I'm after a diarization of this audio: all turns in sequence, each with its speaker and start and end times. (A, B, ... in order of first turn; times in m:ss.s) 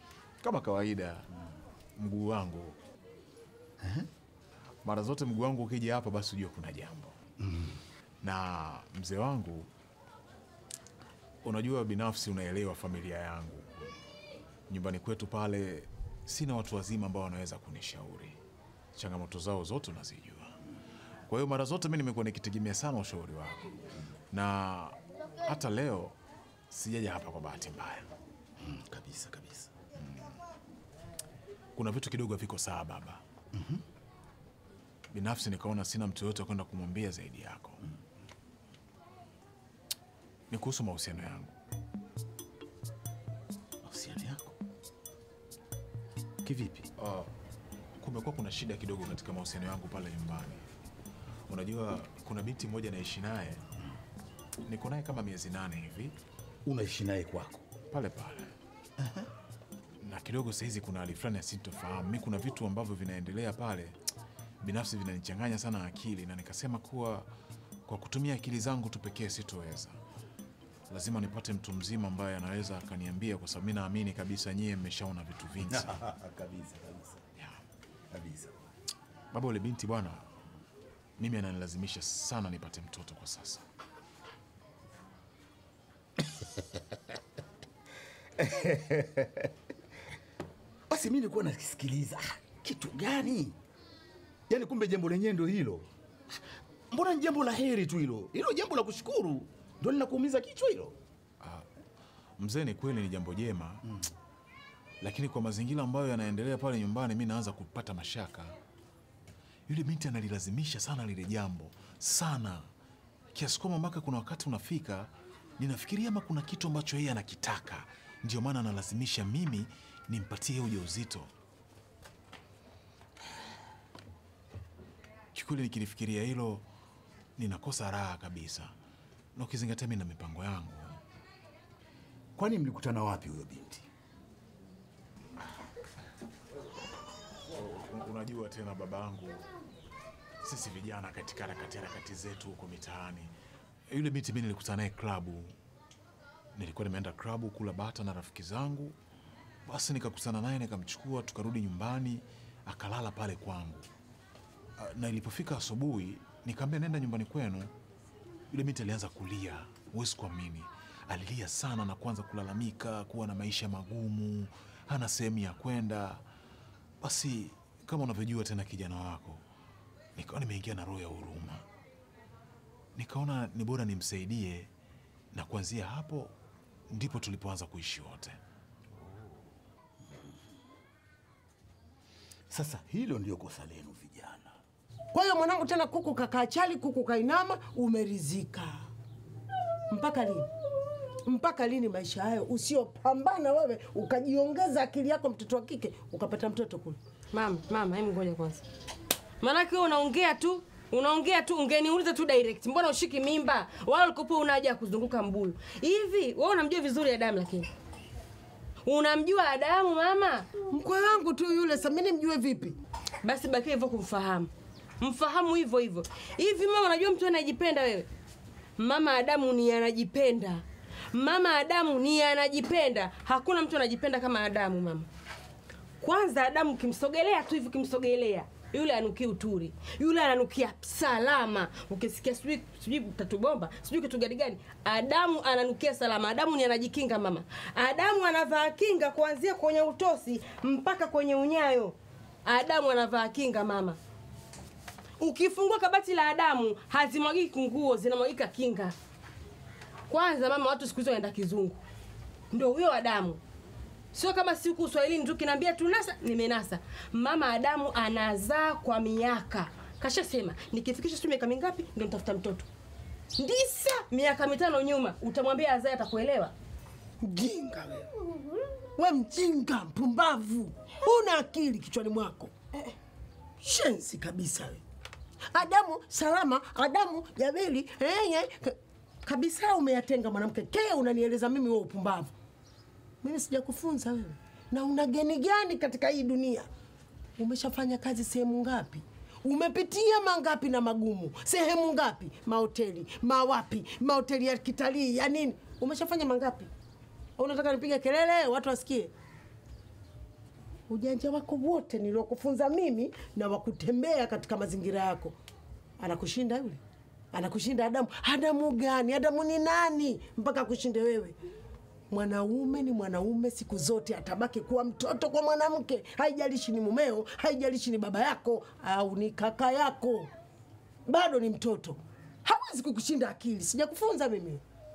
0:00.4-0:01.3 A
0:02.0-0:02.8 A
0:03.8-0:04.1 B
0:04.8-0:07.1 A
0:07.4-0:07.8 B
0:08.2-0:09.7 A
0:11.4-0:13.7 A
0:14.7-0:18.4 A
0:18.9-0:20.6 A
0:21.3-0:23.6 A
0:24.3-0:26.2 A
0:26.7-0:28.1 A
0:28.6-0:29.7 B
0:31.7-0:33.2 A
0:33.5-0:33.8 B
0:35.1-0:37.8 A
0:40.5-0:41.5 A
0:43.8-0:44.5 B
0:46.4-0:46.9 B
0:47.0-0:47.3 A
0:48.0-0:50.6 A
0:51.5-0:53.6 A
0:54.6-0:56.1 A
0:56.6-0:57.6 B
0:57.9-0:58.5 A
0:59.0-0:59.3 B
1:00.0-1:04.0 A
1:04.6-1:07.3 A
1:07.9-1:10.0 A
1:10.9-1:16.0 A
1:15.7-1:17.2 B
1:18.1-1:18.5 B
1:19.3-1:20.2 A
1:21.2-1:23.6 A
1:28.4-1:29.5 B
1:30.9-1:33.6 B
1:34.5-1:35.9 B
1:36.9-1:40.9 B
1:41.4-1:41.7 A
1:42.4-1:43.8 A
1:45.0-1:48.5 A
1:49.7-1:52.7 A
1:53.3-2:01.3 A
2:05.3-2:06.6 A
2:07.4-2:08.7 A
2:09.3-2:11.0 A
2:12.4-2:13.9 B
2:17.5-2:19.4 A
2:20.4-2:23.3 A
2:23.9-2:25.6 A
2:26.5-2:29.0 A
2:29.6-2:33.9 A
2:34.8-2:37.7 A
2:38.5-2:46.2 A
2:47.0-2:49.4 A
2:50.1-2:51.6 A
2:52.9-2:54.7 A
2:55.3-2:56.3 A
2:56.9-2:58.4 A
3:02.5-3:04.6 B
3:05.1-3:08.9 C
3:09.9-3:10.5 C
3:11.2-3:17.0 C
3:17.3-3:18.6 D
3:19.4-3:27.7 D
3:28.8-3:30.5 D
3:30.7-3:32.8 C
3:33.2-3:38.1 D
3:38.8-3:45.1 D
3:46.0-4:04.0 D
4:05.2-4:08.9 D
4:10.1-4:11.8 D
4:12.5-4:13.4 D
4:14.1-4:22.7 D
4:23.4-4:26.5 D
4:27.2-4:28.1 C
4:29.0-4:32.5 C
4:33.6-4:34.8 C
4:35.5-4:42.3 C
4:43.2-4:46.7 C
4:47.4-4:56.7 C
4:57.4-4:59.1 C
5:00.9-5:05.3 C
5:06.0-5:06.8 C
5:07.3-5:11.3 C
5:12.1-5:20.3 C
5:21.1-5:24.6 C